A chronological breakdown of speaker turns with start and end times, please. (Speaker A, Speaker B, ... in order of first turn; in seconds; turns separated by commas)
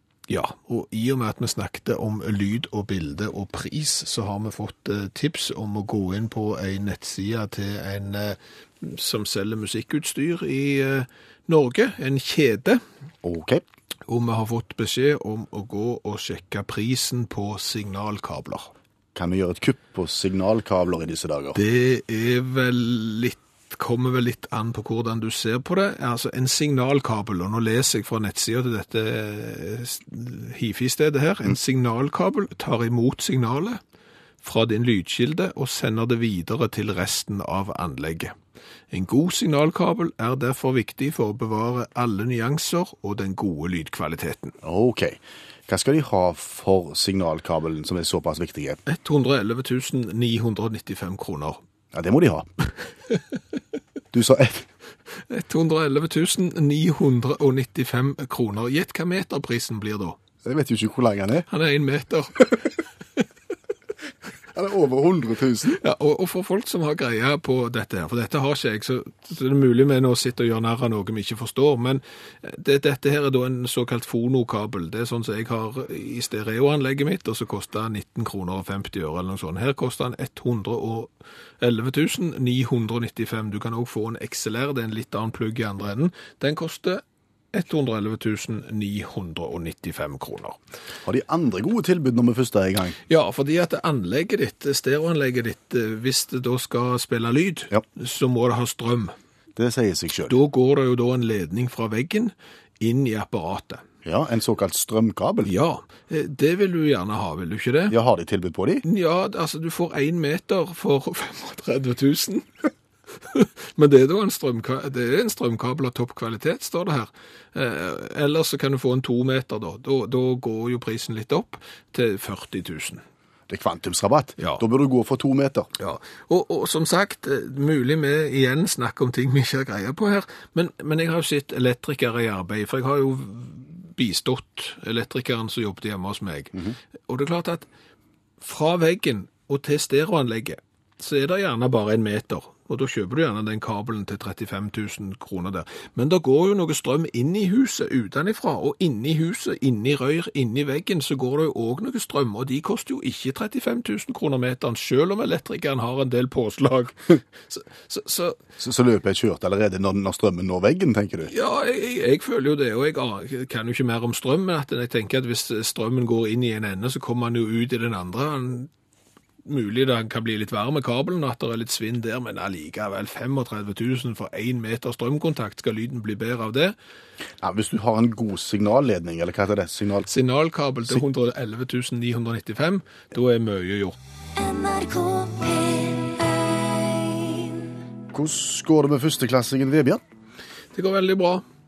Speaker A: 0.3-12.8, Speaker B: 13.2-13.6, Speaker A: 14.1-18.7, Speaker B: 19.1-21.6, Speaker A: 21.6-33.8, Speaker A: 34.4-38.3, Speaker A: 38.9-44.5, Speaker B: 44.6-48.8, Speaker A: 48.9-51.6, Speaker B: 51.9-52.5, Speaker B: 54.1-54.6, Speaker A: 55.2-60.2, Speaker B: 60.4-61.5, Speaker A: 61.5-62.6, Speaker B: 64.5-65.8, Speaker A: 65.7-87.0, Speaker A: 87.5-90.6, Speaker B: 91.0-93.0, Speaker A: 93.1-99.1, Speaker B: 99.5-100.3, Speaker A: 100.3-103.8, Speaker B: 104.0-105.5, Speaker A: 105.5-108.0, Speaker B: 107.9-108.8, Speaker A: 108.8-112.5, Speaker A: 113.2-123.0, Speaker B: 123.5-125.7, Speaker A: 125.8-136.5, Speaker A: 137.1-137.7, Speaker A: 138.4-158.4, Speaker B: 158.6-161.3, Speaker A: 161.3-168.7, Speaker A: 169.4-176.8, Speaker B: 177.4-180.1, Speaker A: 180.1-184.0, Speaker C: 184.3-187.4, Speaker B: 188.1-190.0, Speaker A: 190.7-191.4